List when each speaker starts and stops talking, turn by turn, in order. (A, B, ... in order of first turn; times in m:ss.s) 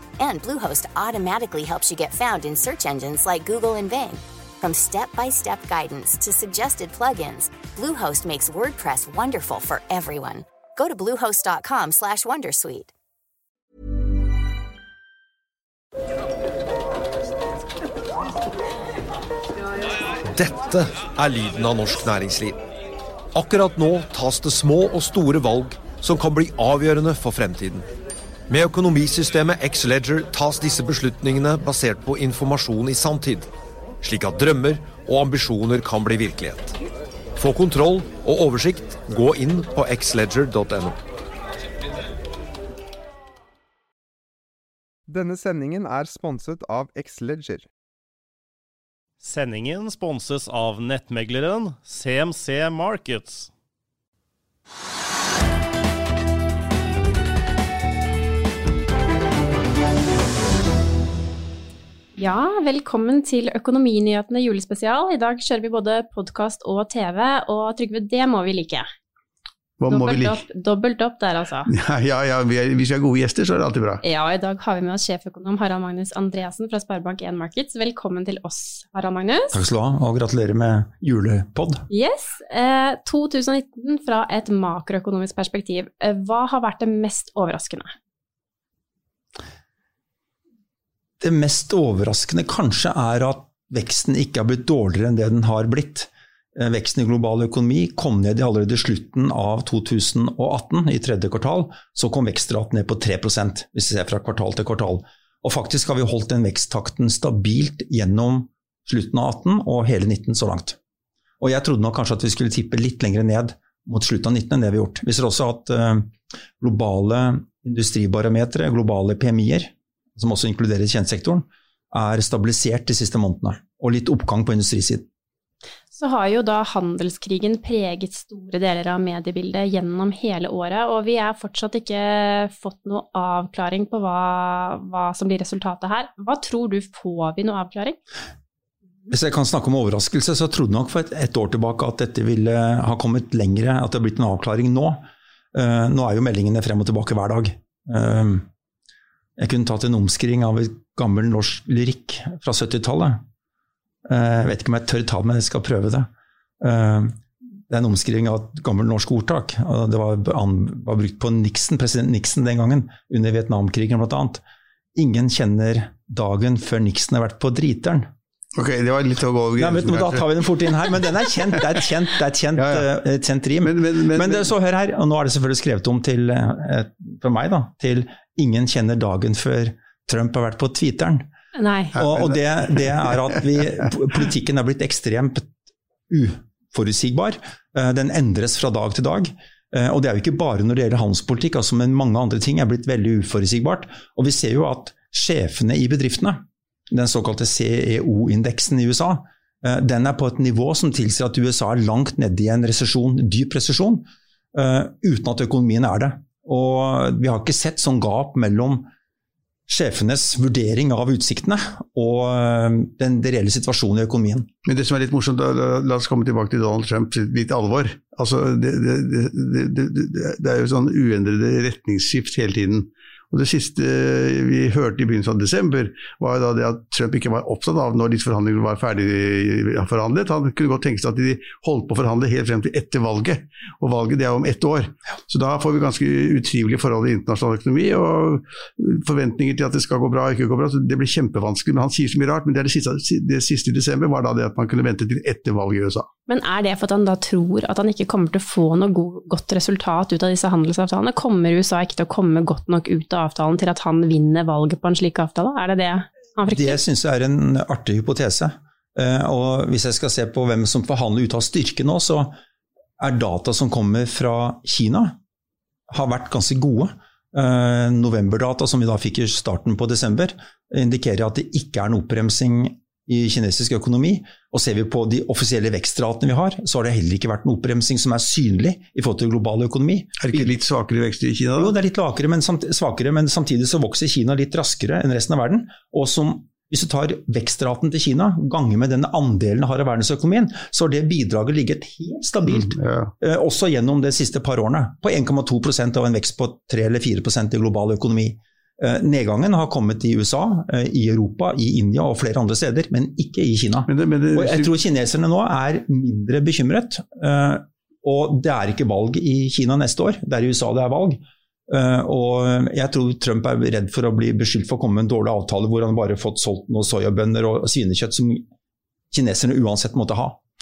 0:00.2-0:12.9 A
0:20.3-0:22.6 B
0:23.3-0:27.9 B
0:28.5-0:33.5 B
0:34.0-0:36.8 B
0:37.4-0:41.0 B
0:45.1-0:47.7 C
0:49.2-0:53.5 D
1:02.2-1:08.9 E
1:09.8-1:10.4 F
1:09.9-1:11.7 E
1:11.7-1:14.0 F
1:14.0-1:19.6 E
1:19.5-1:21.8 G
1:21.9-1:27.9 E
1:31.2-1:50.8 G
1:51.4-2:05.1 G
2:05.9-2:18.0 E
2:19.1-2:28.4 G
2:29.4-2:33.2 G
2:34.0-2:36.1 G
2:36.6-2:37.2 G
2:37.7-2:44.4 G
2:44.9-2:48.1 G
2:48.6-2:50.2 F
2:49.6-3:01.3 G
2:52.6-2:52.9 F
2:53.6-2:54.5 F
3:01.5-3:02.0 E
3:01.9-3:05.5 G
3:02.0-3:02.4 F
3:06.1-3:28.9 G
3:29.7-3:34.5 G
3:34.7-4:06.1 F
4:06.3-4:16.8 E
4:16.5-4:22.3 G
4:23.0-4:25.2 G
4:25.9-4:40.5 G
4:40.2-4:41.7 F
4:41.6-5:18.5 G
4:52.5-4:53.1 F
5:03.9-5:04.7 F
5:19.1-5:20.4 G